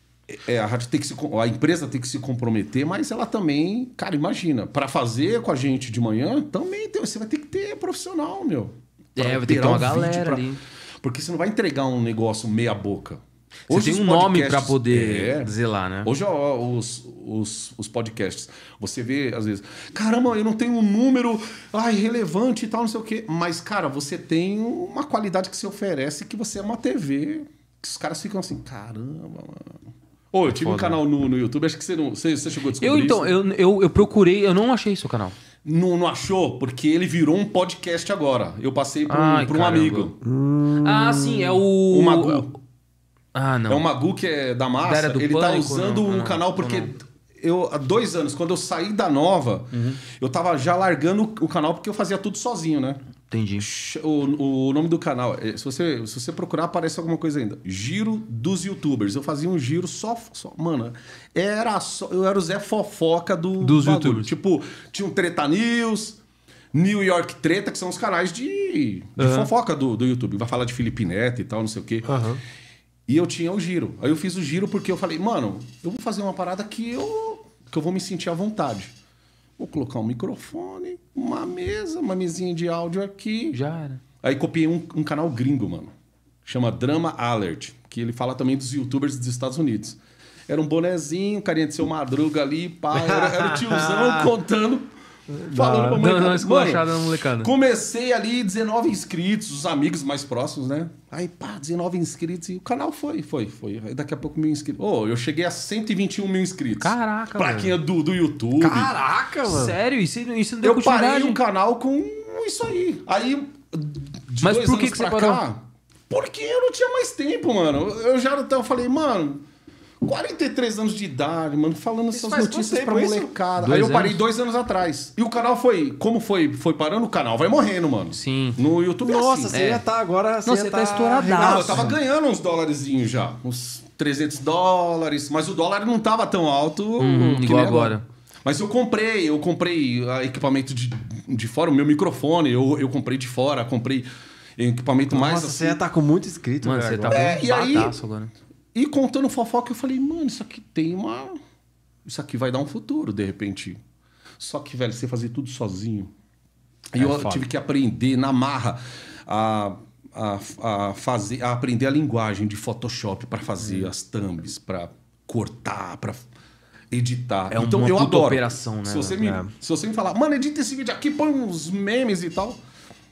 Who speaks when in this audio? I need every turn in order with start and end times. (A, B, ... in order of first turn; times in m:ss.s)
0:00.3-0:10.4 A
0:09.2-0:10.6 B
0:11.0-0:15.5 A
0:13.7-0:16.1 B
0:16.0-0:29.8 A
0:30.3-0:33.3 A
0:30.5-0:31.0 B
0:32.8-0:35.4 B
0:35.6-0:40.2 A
0:39.1-0:40.1 B
0:40.2-0:41.6 C
0:40.8-0:42.5 B
0:41.9-0:42.5 A
0:43.3-0:43.8 B
0:43.7-0:53.0 A
0:44.8-0:46.9 B
0:49.7-0:50.0 B
0:53.3-0:53.7 B
0:53.6-1:06.2 A
1:03.6-1:04.3 B
1:06.7-1:12.1 A
1:12.0-1:12.4 C
1:13.1-1:18.9 A
1:19.6-1:23.6 A
1:23.5-1:24.0 B
1:24.2-1:25.9 A
1:26.4-1:34.9 A
1:32.9-1:34.3 C
1:35.3-1:36.0 C
1:35.4-1:48.9 A
1:36.0-1:37.5 B
1:46.8-1:47.8 B
1:48.6-1:49.8 C
1:49.4-1:51.4 B
1:50.6-1:59.4 A
1:54.4-1:55.4 B
2:00.0-2:09.6 A
2:02.1-2:03.3 C
2:03.6-2:04.2 B
2:08.1-2:08.6 B
2:09.0-2:12.0 C
2:09.5-2:09.8 B
2:10.4-2:12.0 B
2:11.2-2:25.8 A
2:17.0-2:18.0 B
2:25.1-2:27.4 C
2:26.6-2:28.3 B
2:27.1-2:28.0 A
2:28.7-2:31.4 A
2:32.0-2:33.8 A
2:34.4-2:36.1 A
2:36.9-2:46.2 A
2:37.0-2:37.5 C
2:46.9-2:52.6 A
2:47.5-2:49.3 B
2:49.2-2:49.5 C